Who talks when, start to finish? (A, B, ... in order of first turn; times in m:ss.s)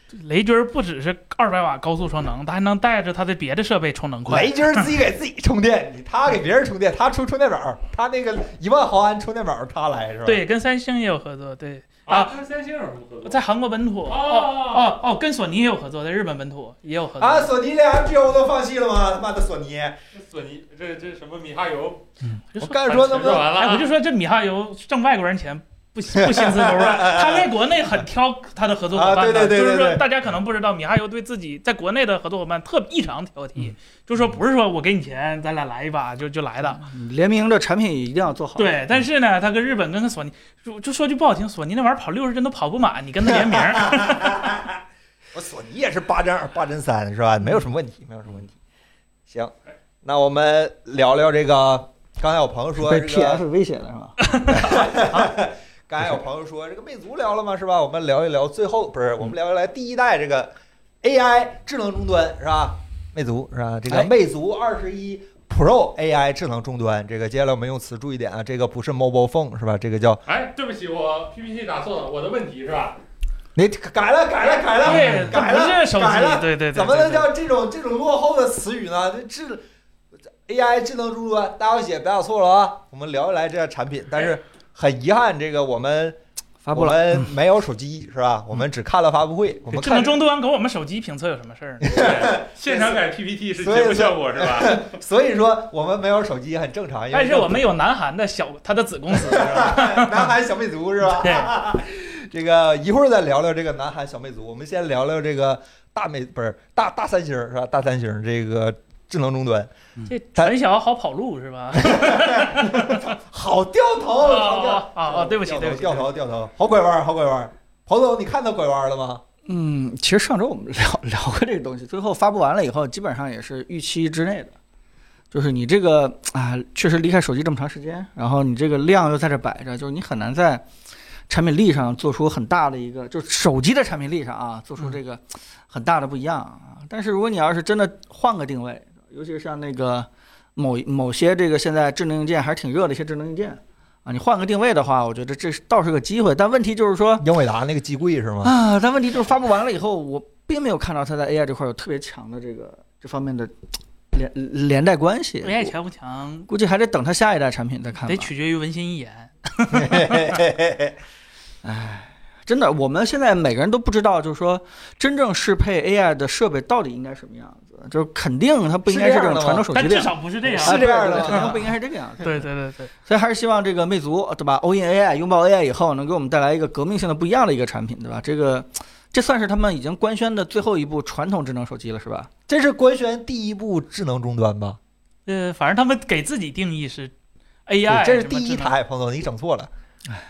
0:00.1-0:04.9 A
0:04.3-0:10.4 B
0:10.2-0:12.4 A
0:12.1-0:13.4 C
0:13.2-0:17.5 A
0:14.1-0:14.9 C
0:17.2-0:20.0 B
0:20.1-0:22.1 C
0:22.3-0:36.8 A
0:22.6-0:23.5 B
0:22.8-0:23.9 C
0:26.2-0:27.6 B
0:28.9-0:30.1 B
0:36.8-0:38.8 D
0:38.6-0:44.5 A
0:43.7-0:44.7 B
0:45.3-0:48.6 B
0:49.3-0:49.5 B
0:50.0-0:53.4 B
0:52.8-0:54.2 D
0:54.2-0:55.3 A
0:54.5-1:10.2 B
1:10.3-1:13.0 C
1:13.6-1:19.6 B
1:14.8-1:17.3 A
1:20.5-1:26.2 B
1:26.6-1:27.3 D
1:26.7-1:30.2 B
1:29.7-1:32.0 A
1:31.8-1:33.1 B
1:31.9-1:34.9 C
1:33.6-1:37.6 B
1:37.1-1:40.3 A
1:39.1-1:49.7 B
1:41.1-1:41.5 A
1:50.1-1:53.1 A
1:51.7-1:59.2 B
1:54.2-1:56.1 A
1:59.5-2:04.6 D
2:05.3-2:10.7 D
2:11.3-2:27.3 D
2:27.2-2:28.5 B
2:28.4-2:33.6 D
2:34.1-2:35.7 D
2:35.4-2:36.5 A
2:36.5-2:38.3 D
2:38.1-2:40.4 A
2:39.7-2:41.0 B
2:41.6-2:52.5 D
2:48.9-2:49.7 B
2:49.7-2:51.6 A
2:50.5-2:51.6 B
2:52.2-2:52.9 A
2:53.1-3:02.3 D
3:02.5-3:04.8 B
3:05.3-3:07.1 A
3:07.7-3:08.8 A
3:07.9-3:09.7 B